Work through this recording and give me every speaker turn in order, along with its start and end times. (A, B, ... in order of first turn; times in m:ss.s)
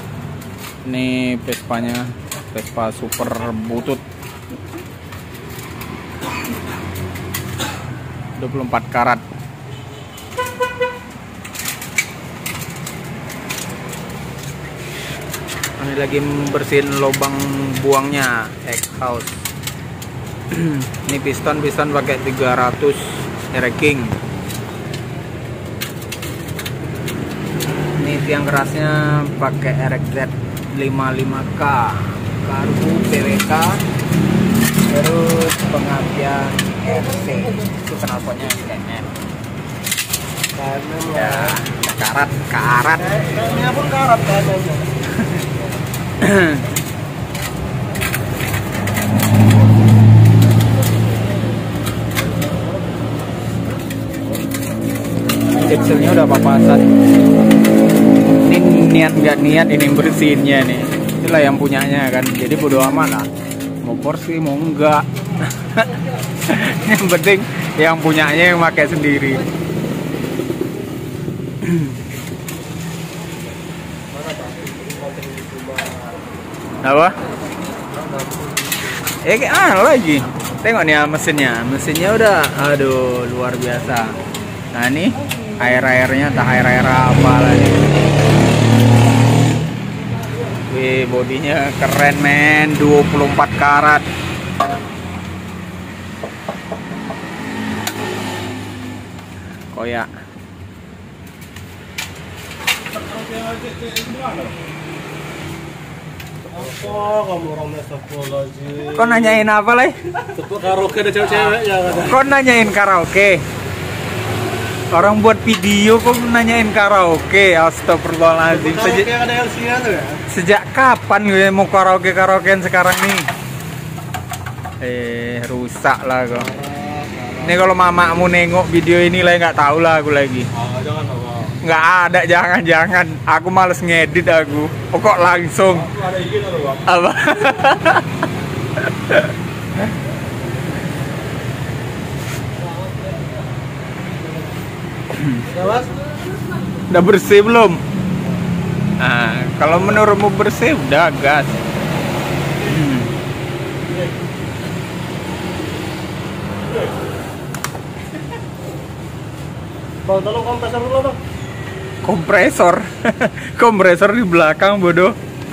0:00.8-0:04.0 A
0:08.4-0:09.2 A
0:15.8-0:19.4 A
0:20.5-0:24.2 A
0:28.0-0:33.8 A
0:34.9-0:39.2 A
0:40.6-0:41.6 B
0:41.1-0:43.2 A
0:43.1-0:45.0 B
0:46.2-0:46.7 A
0:55.5-0:56.8 A
0:58.4-1:03.3 A
1:03.8-1:09.4 A
1:11.6-1:12.0 A
1:14.1-1:16.2 B
1:16.8-1:17.2 A
1:17.9-1:18.8 B
1:19.2-1:24.2 A
1:24.7-1:27.8 A
1:30.7-1:34.1 A
1:39.7-1:40.1 A
1:46.5-1:49.4 B
1:48.9-1:50.0 A
1:50.3-1:52.2 B
1:51.9-1:53.4 A
1:54.9-1:59.1 A
1:58.5-2:00.2 B
2:00.3-2:03.3 A
2:04.8-2:06.5 A
2:06.4-2:07.6 B
2:07.4-2:10.5 A
2:10.7-2:11.5 B
2:11.6-2:16.0 A
2:16.8-2:18.2 A
2:19.1-2:19.3 A
2:22.7-2:23.2 B
2:25.2-2:25.5 A
2:25.4-2:26.0 B
2:26.9-2:27.8 A
2:29.0-2:31.5 A
2:32.6-2:33.1 A
2:33.9-2:34.1 B
2:40.0-2:41.2 B
2:42.0-2:45.1 A